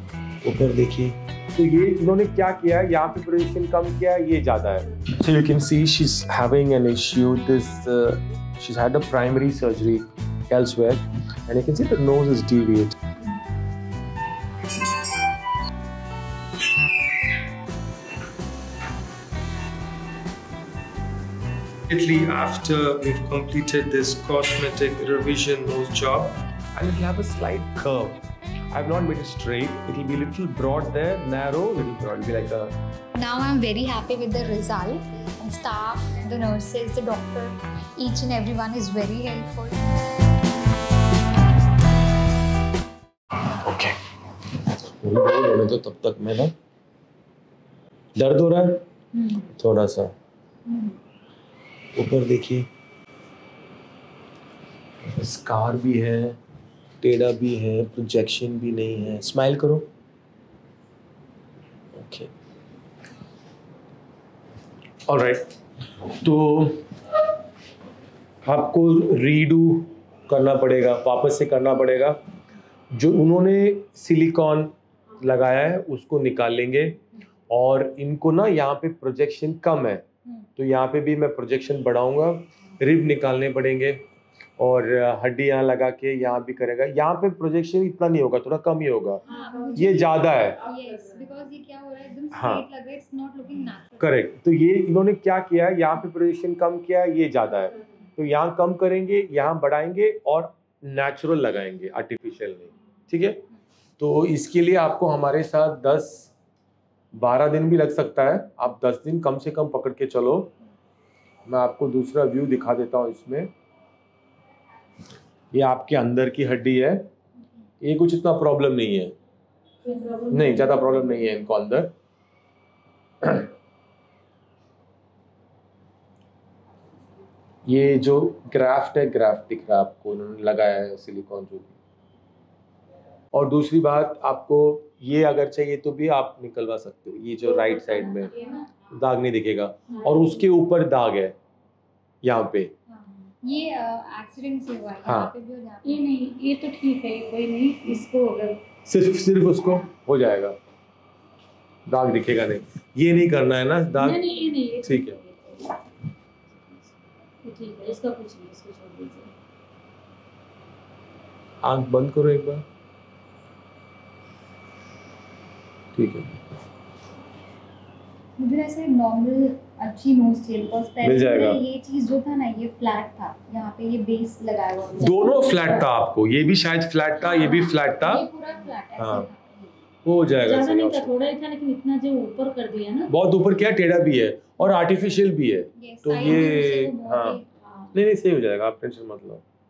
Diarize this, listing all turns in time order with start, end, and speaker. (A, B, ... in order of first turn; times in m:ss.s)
0:00.4-0:13.0 A
0:21.9-0:32.7 A
0:33.2-0:39.9 B
0:43.4-0:44.0 A
0:44.7-0:46.5 A
0:48.1-0:48.8 A
0:49.1-0:49.5 B
0:49.5-0:50.1 A
0:50.7-0:51.0 B
0:52.0-0:52.7 A
0:55.0-0:56.4 A
0:57.0-0:59.9 A
1:01.9-1:02.3 A
1:05.1-1:05.4 A
1:06.1-1:06.9 A
1:08.4-1:12.2 A
1:12.9-1:20.0 A
1:20.6-1:24.0 A
1:24.6-1:29.2 A
1:29.2-1:30.1 B
1:29.3-1:30.0 C
1:29.7-1:30.6 A
1:30.6-1:34.2 B
1:32.3-1:32.6 A
1:34.0-1:43.4 A
1:44.0-1:46.3 A
1:47.1-1:50.5 A
1:51.4-1:53.5 A
1:55.5-1:57.1 A
1:57.8-1:59.2 A
1:59.8-2:01.0 C
2:00.3-2:01.9 A
2:03.2-2:03.5 A
2:07.7-2:11.7 A
2:13.3-2:21.4 A
2:17.6-2:18.7 C
2:19.9-2:20.3 C
2:22.2-2:22.7 A
2:22.9-2:26.3 B
2:25.0-2:25.3 A
2:25.8-2:28.6 C
2:28.8-2:30.6 A
2:31.9-2:35.2 A
2:33.9-2:35.7 C
2:36.6-2:36.9 C
2:37.4-2:39.3 C
2:41.6-2:42.6 A
2:45.9-2:46.3 A
2:48.4-2:55.8 B
2:51.0-2:51.6 A
2:55.0-2:58.2 A
2:57.2-2:59.7 B
2:59.0-2:59.3 A
3:00.0-3:01.1 A
3:00.4-3:03.1 C
3:03.1-3:07.4 A
3:05.8-3:07.5 B
3:07.9-3:09.4 A